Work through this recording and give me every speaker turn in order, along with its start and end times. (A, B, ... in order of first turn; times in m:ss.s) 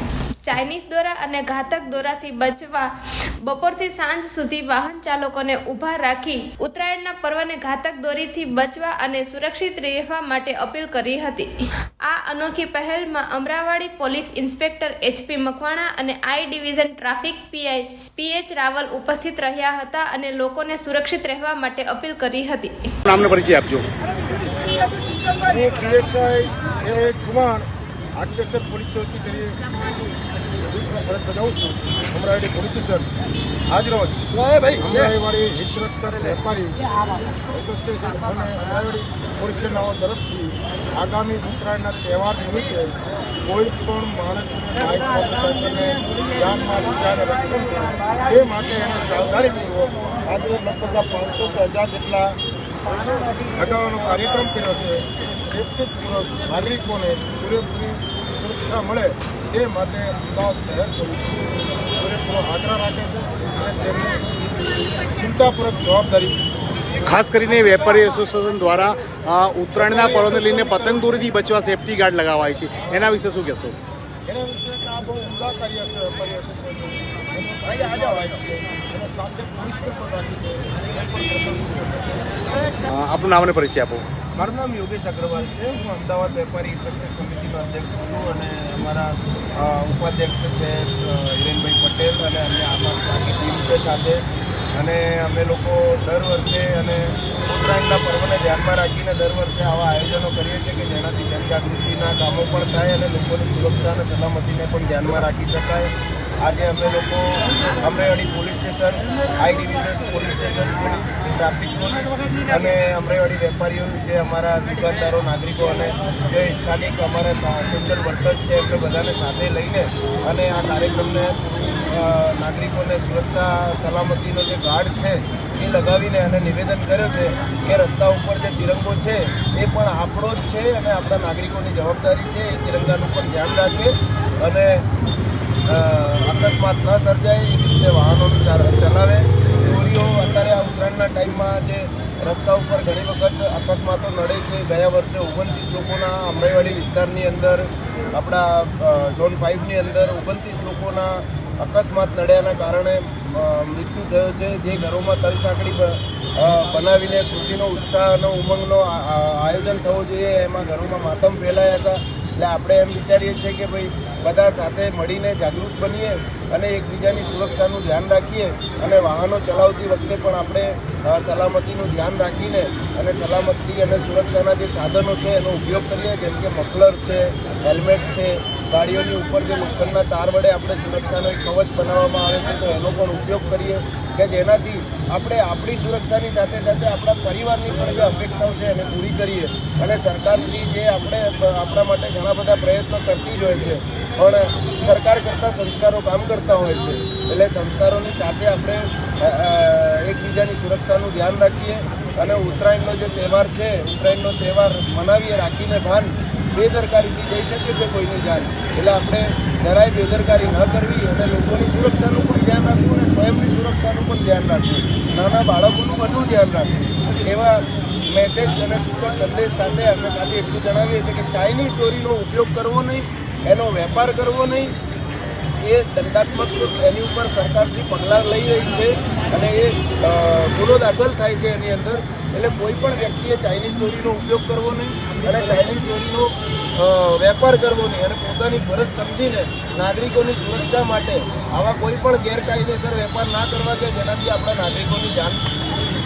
0:00.4-0:11.5 A
0:12.0-0:22.9 A
0:23.1-0:23.9 B
0:25.2-0:29.6 C
0:30.6-0:33.1 C
0:33.7-0:34.3 C
0:34.3-0:35.1 D
0:34.8-0:36.8 C
0:37.5-0:52.4 C
0:53.5-1:04.2 C
1:05.1-1:06.4 C
1:07.0-1:13.8 B
1:09.8-1:11.1 C
1:14.2-1:22.4 C
1:17.6-1:18.4 D
1:22.9-1:24.0 B
1:24.4-2:14.9 D
2:15.7-3:44.8 D
3:45.6-4:05.5 D